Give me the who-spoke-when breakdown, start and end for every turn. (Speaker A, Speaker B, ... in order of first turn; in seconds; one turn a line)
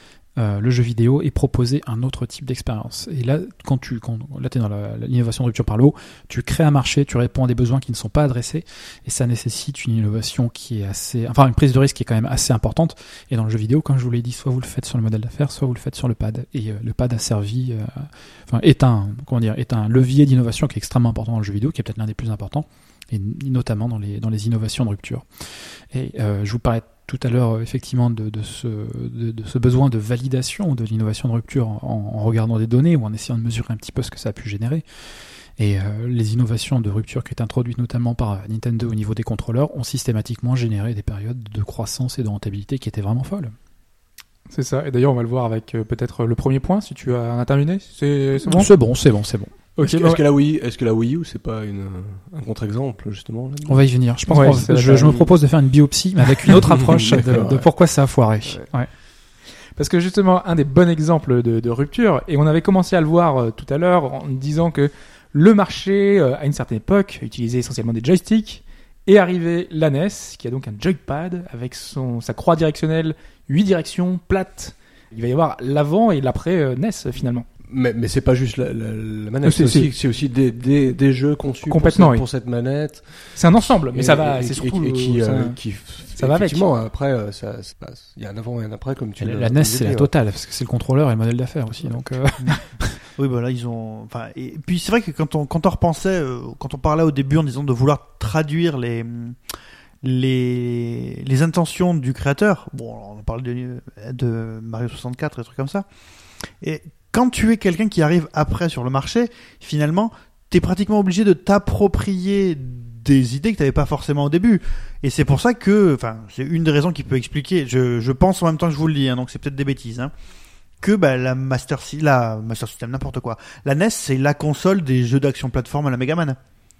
Speaker A: 0.4-34.8
Speaker A: 35.6-43.5
Speaker B: 44.5-48.7
Speaker A: 48.4-49.5
Speaker B: 49.8-50.2
Speaker C: 49.8-55.3
Speaker A: 53.6-58.9
Speaker B: 54.3-55.2
Speaker C: 56.5-57.7
Speaker B: 59.8-77.5
Speaker C: 77.7-83.4
Speaker B: 79.4-79.9
Speaker B: 81.6-82.2
Speaker B: 83.3-85.6
Speaker C: 83.9-90.1
Speaker B: 86.2-86.7
Speaker A: 89.2-93.0
Speaker D: 93.2-99.4
Speaker D: 100.0-105.8
Speaker D: 106.6-120.1
Speaker D: 120.8-126.4